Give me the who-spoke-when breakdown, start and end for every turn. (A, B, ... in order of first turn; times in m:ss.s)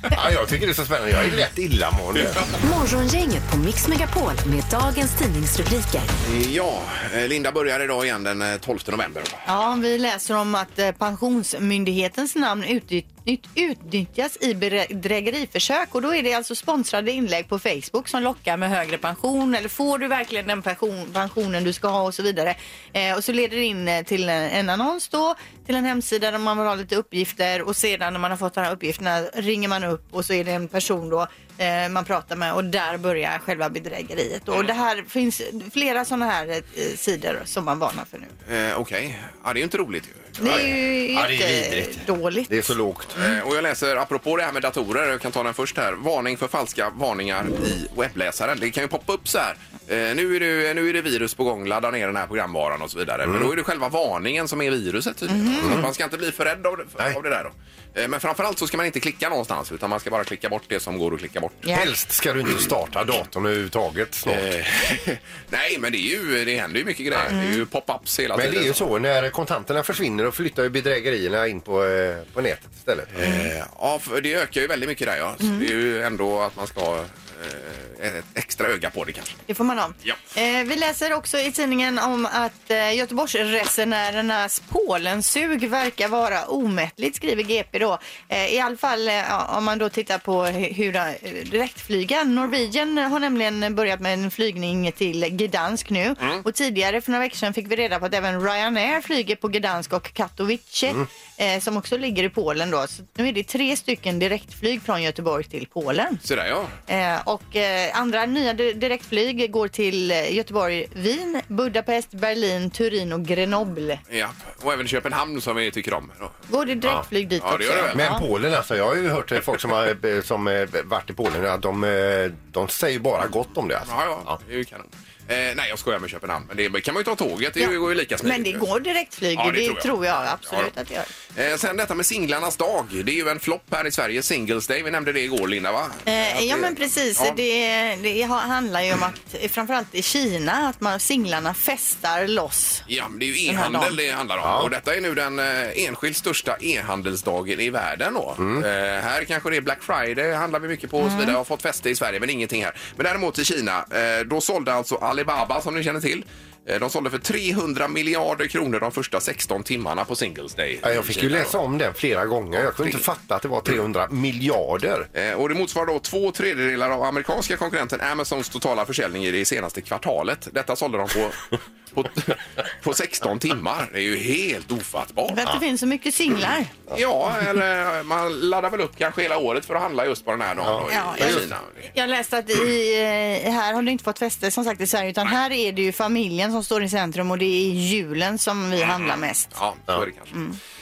0:00.1-0:02.4 A
0:02.2-0:02.5 B
0:02.6-0:06.1 C
0:06.2-0:09.4 B
0:09.4-0:38.3 D
0:38.5-0:40.6 B
0:40.4-0:42.7 D
0:40.4-0:43.2 A
0:43.2-1:01.7 B
0:53.2-0:53.5 A
0:55.3-0:55.8 D
0:55.6-0:55.9 A
1:01.7-1:04.5 A
1:04.3-1:08.8 B
1:07.3-1:07.6 D
1:08.3-1:13.2 A
1:13.1-1:19.4 B
1:19.5-1:46.2 D
1:46.2-1:46.7 B
1:46.9-1:54.0 D
1:54.1-1:56.4 B
1:56.5-1:58.2 D
1:57.4-1:58.0 B
1:57.9-2:04.4 A
2:03.8-2:08.6 B
2:07.6-2:11.1 D
2:09.4-2:10.7 B
2:11.3-2:17.4 B
2:16.1-2:22.8 D
2:22.9-2:41.6 B
2:23.5-2:23.9 D
2:24.4-2:24.7 A
2:28.4-2:28.6 A
2:31.0-2:31.4 D
2:40.8-2:45.1 A
2:42.8-2:43.0 B
2:45.1-2:55.5 B
2:55.3-2:56.7 D
2:56.9-3:01.8 B
3:00.6-3:01.5 A
3:00.9-3:01.4 D
3:01.9-3:09.6 D
3:08.8-3:10.3 B